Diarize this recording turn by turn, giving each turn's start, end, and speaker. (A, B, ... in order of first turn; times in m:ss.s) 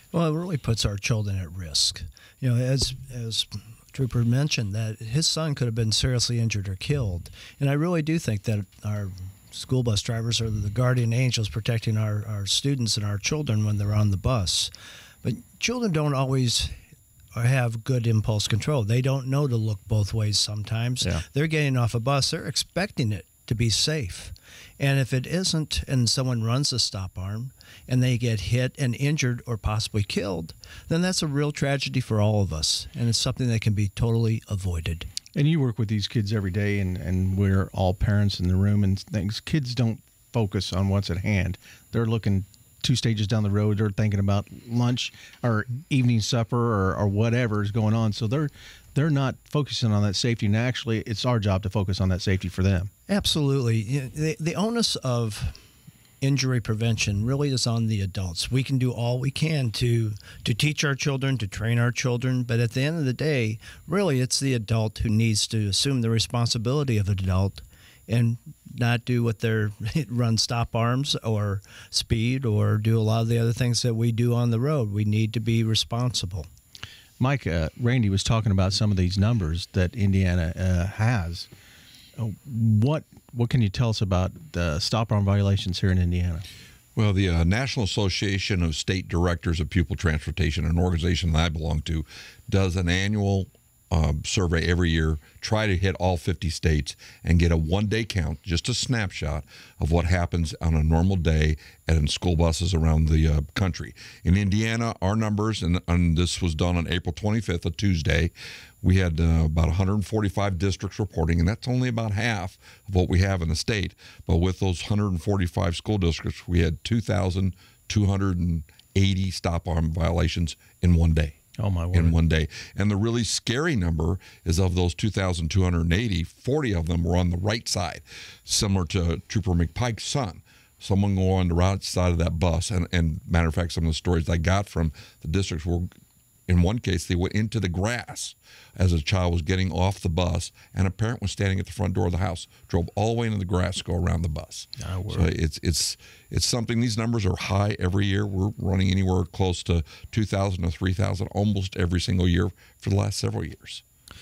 0:00.1-0:14.7 A
0:15.2-0:16.7 A
0:17.3-0:35.1 A
0:35.3-0:52.9 B
0:53.1-0:55.6 A
0:56.2-1:16.5 A
1:17.2-1:21.5 B
1:22.2-1:26.4 B
1:27.0-2:01.4 C
2:01.6-2:02.2 B
2:01.9-2:15.9 C
2:16.5-2:33.8 C
2:24.8-2:25.3 B